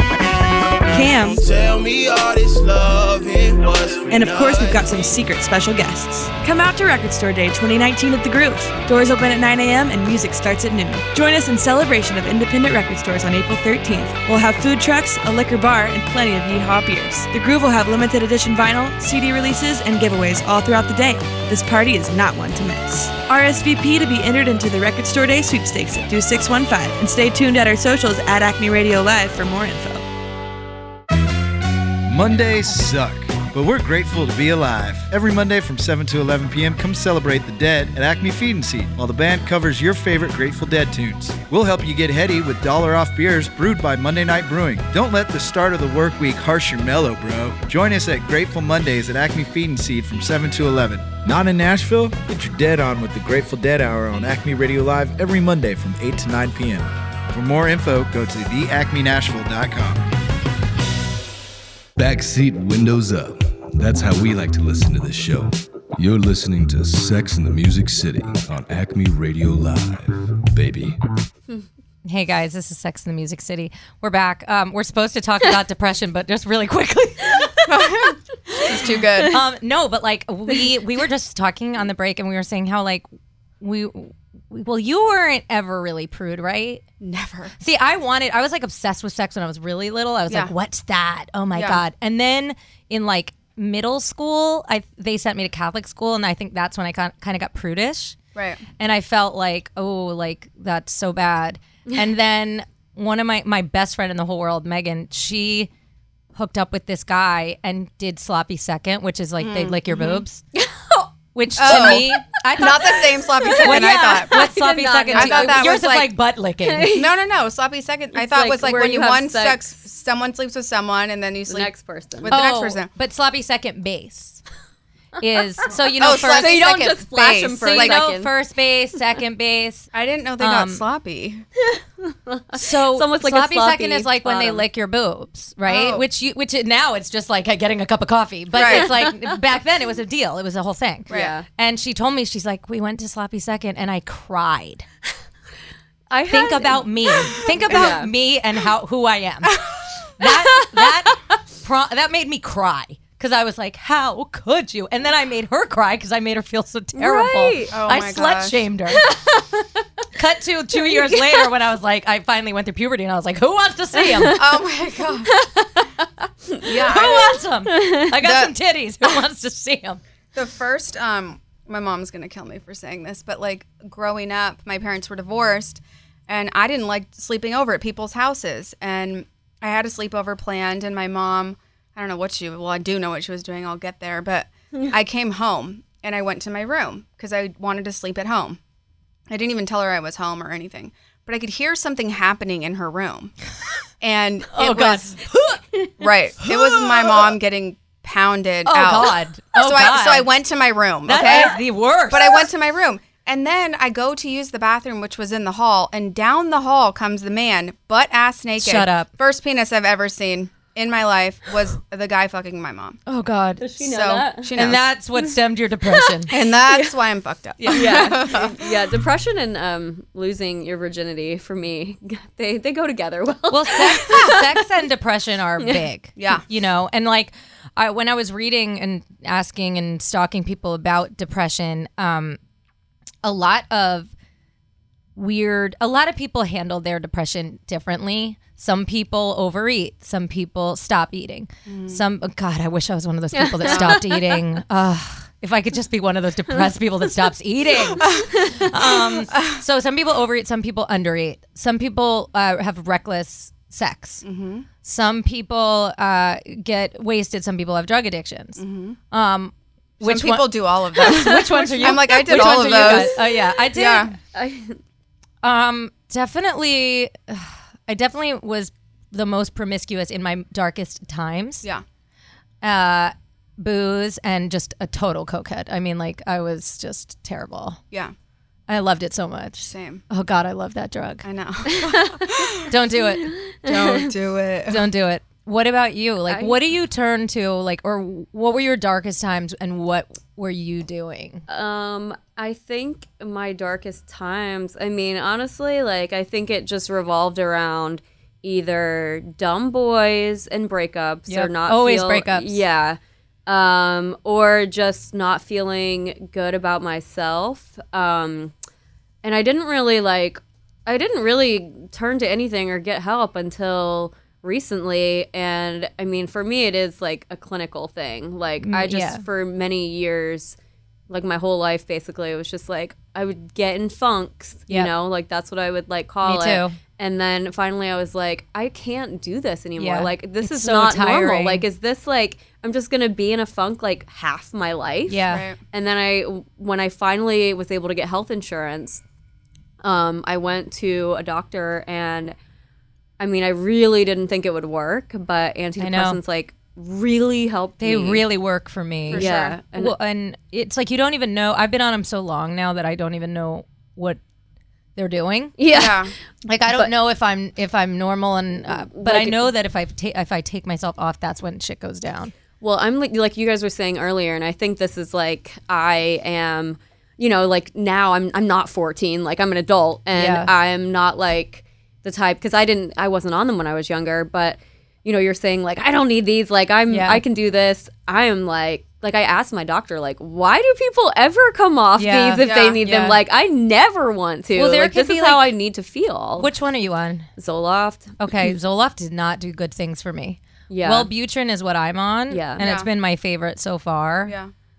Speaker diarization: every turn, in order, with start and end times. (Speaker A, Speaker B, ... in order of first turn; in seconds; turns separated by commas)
Speaker A: 0.9-1.5, Speaker B: 1.5-4.1, Speaker A: 4.1-30.0, Speaker C: 32.1-60.0, Speaker D: 62.0-71.0, Speaker E: 72.0-77.5, Speaker F: 77.7-79.4, Speaker E: 79.3-83.1, Speaker E: 83.6-86.8, Speaker F: 87.0-87.5, Speaker E: 87.6-98.2, Speaker F: 91.5-91.8, Speaker F: 98.3-98.6, Speaker E: 98.8-105.7, Speaker E: 106.3-110.4, Speaker F: 109.4-110.2, Speaker G: 110.5-111.1, Speaker E: 111.3-113.0, Speaker F: 111.6-114.5, Speaker G: 111.6-112.1, Speaker G: 112.6-115.8, Speaker E: 113.5-116.9, Speaker F: 115.1-116.2, Speaker G: 116.6-117.1, Speaker F: 116.9-122.9, Speaker G: 118.1-119.8, Speaker G: 121.5-122.4, Speaker E: 122.3-124.4, Speaker E: 125.2-126.6, Speaker F: 126.0-128.0, Speaker G: 126.0-128.3, Speaker E: 127.5-130.8, Speaker F: 129.9-131.4, Speaker G: 131.6-134.7, Speaker E: 132.5-144.8, Speaker F: 135.7-136.0, Speaker F: 138.5-138.9, Speaker G: 138.7-139.1, Speaker F: 141.1-141.3, Speaker G: 141.1-141.4, Speaker G: 146.1-148.1, Speaker E: 146.3-149.6, Speaker E: 150.2-159.0, Speaker G: 156.9-157.7, Speaker F: 157.7-158.6, Speaker G: 159.0-159.7, Speaker E: 160.1-164.4, Speaker F: 164.3-165.3, Speaker G: 165.3-165.7, Speaker F: 166.6-167.4, Speaker E: 166.9-170.0, Speaker G: 167.7-168.0, Speaker F: 168.1-168.5, Speaker F: 170.3-188.6, Speaker F: 189.3-193.3, Speaker F: 194.0-195.1, Speaker E: 194.5-195.6, Speaker F: 196.0-213.0, Speaker E: 196.4-196.8, Speaker E: 198.7-200.3, Speaker E: 201.1-202.5, Speaker E: 208.6-209.1, Speaker E: 213.1-213.6, Speaker G: 213.6-214.5, Speaker F: 213.8-214.9, Speaker E: 214.5-216.3, Speaker F: 216.3-218.6, Speaker E: 217.6-218.1, Speaker G: 217.7-224.4, Speaker E: 223.5-232.4, Speaker F: 226.2-226.4, Speaker E: 233.2-234.1, Speaker E: 235.2-254.2, Speaker F: 241.7-242.0, Speaker G: 243.3-244.4, Speaker F: 243.7-244.0, Speaker G: 248.0-248.7, Speaker F: 254.2-254.7, Speaker E: 254.8-264.1, Speaker F: 258.6-259.0, Speaker F: 260.0-264.1, Speaker G: 261.4-263.0, Speaker G: 264.3-264.8, Speaker E: 265.4-271.6, Speaker E: 272.6-277.8, Speaker E: 278.7-281.2, Speaker F: 279.6-280.0, Speaker F: 281.2-282.7, Speaker G: 281.8-282.3, Speaker E: 282.7-283.3, Speaker G: 283.2-284.1, Speaker F: 283.6-284.8, Speaker E: 284.7-291.4, Speaker G: 286.3-286.6, Speaker G: 291.5-308.5, Speaker E: 301.3-302.6, Speaker G: 309.2-320.6, Speaker E: 318.6-319.2, Speaker G: 321.1-339.0, Speaker E: 326.2-326.8, Speaker E: 329.8-331.6, Speaker E: 335.1-335.4, Speaker F: 335.2-335.6, Speaker G: 339.8-342.3, Speaker G: 343.2-348.2, Speaker E: 345.8-346.2, Speaker E: 347.8-354.2, Speaker F: 349.1-349.6, Speaker G: 349.1-349.9, Speaker E: 354.9-355.7, Speaker G: 355.6-356.1, Speaker F: 355.7-356.1, Speaker E: 356.4-362.3, Speaker G: 358.6-359.5, Speaker G: 362.6-386.5, Speaker E: 370.1-370.5, Speaker E: 376.9-377.2, Speaker E: 382.0-383.2, Speaker F: 382.4-382.8, Speaker E: 384.5-385.5, Speaker E: 386.4-387.3, Speaker G: 387.4-388.5, Speaker E: 388.2-394.3, Speaker G: 390.7-391.1, Speaker G: 392.3-392.6, Speaker F: 392.6-392.9, Speaker F: 394.2-394.5